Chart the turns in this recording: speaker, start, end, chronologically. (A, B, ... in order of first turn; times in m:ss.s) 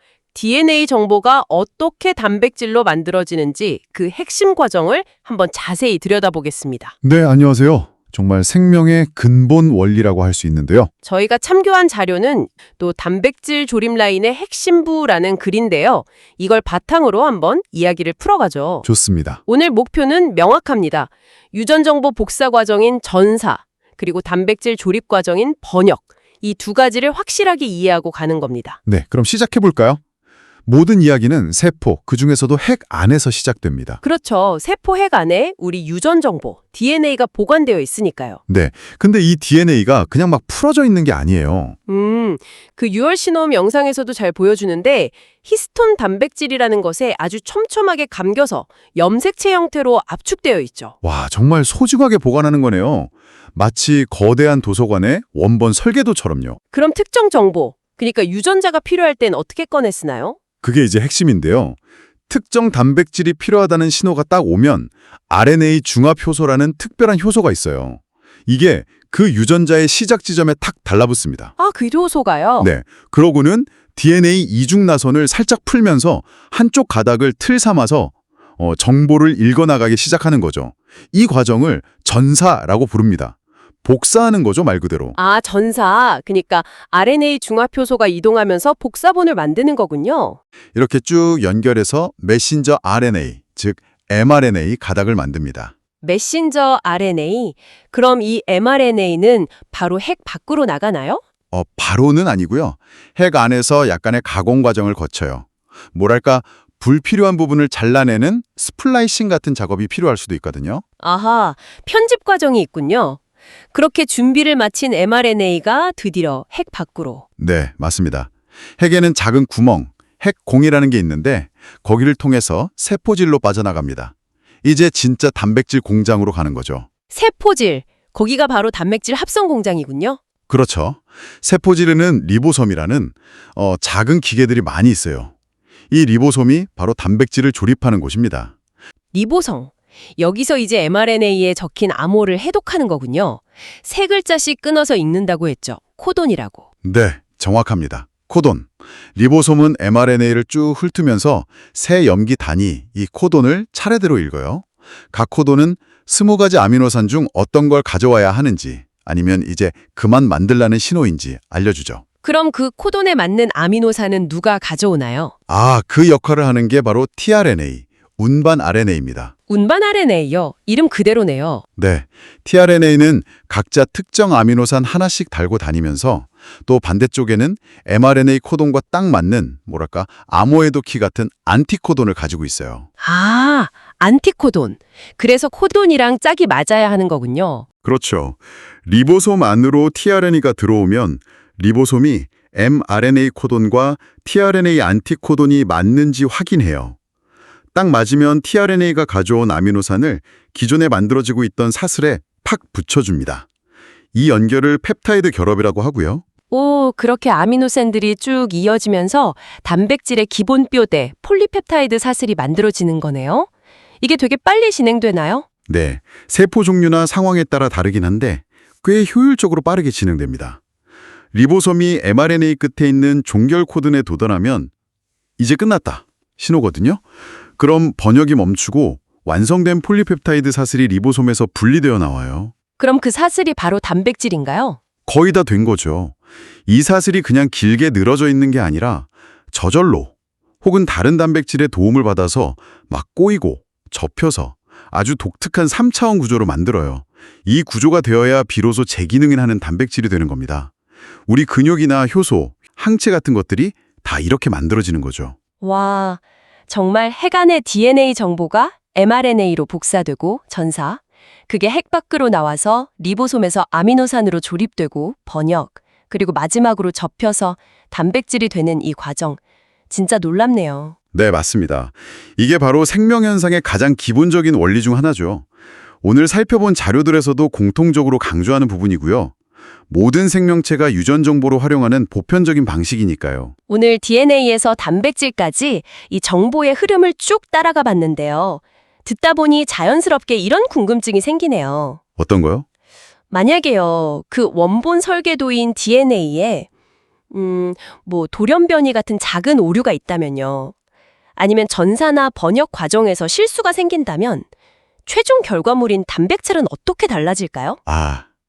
0:00.3-0:06.9 A
0:07.0-0:10.9 B
0:11.0-0:18.8 A
0:18.8-0:19.4 B
0:19.4-0:28.8 A
0:28.9-0:30.0 B
0:30.6-0:34.0 B
0:34.0-0:38.4 A
0:38.5-0:41.8 B
0:41.9-0:50.9 A
0:51.0-0:56.6 B
0:56.7-1:00.4 A
1:00.6-1:01.8 B
1:02.3-1:11.5 B
1:11.6-1:12.7 A
1:12.6-1:25.2 B
1:25.1-1:30.4 A
1:30.7-1:35.7 B
1:36.0-1:41.2 A
1:41.5-1:50.8 B
1:51.0-1:53.2 A
1:53.7-1:57.2 A
1:57.4-2:06.9 B
2:07.1-2:10.2 A
2:10.5-2:15.3 B
2:15.9-2:18.5 B
2:19.1-2:26.6 A
2:26.8-2:42.0 B
2:42.2-2:45.3 A
2:45.5-2:49.3 B
2:49.5-2:51.6 A
2:51.8-3:02.9 B
3:03.0-3:07.6 A
3:07.8-3:17.0 B
3:17.7-3:23.5 B
3:24.1-3:26.2 B
3:26.5-3:33.5 A
3:34.0-3:35.4 A
3:35.7-3:40.6 B
3:41.3-3:44.7 B
3:45.4-3:47.0 B
3:47.6-3:52.5 B
3:52.8-3:54.8 A
3:55.1-3:56.2 B
3:56.7-4:10.7 B
4:11.3-4:15.4 B
4:15.6-4:30.9 A
4:31.1-4:35.5 B
4:36.0-4:39.3 B
4:39.9-4:43.5 B
4:43.7-4:52.0 A
4:52.2-4:52.6 B
4:53.3-4:56.7 A
4:57.3-5:00.7 A
5:01.4-5:04.5 A
5:05.0-5:07.8 A
5:07.8-5:08.2 B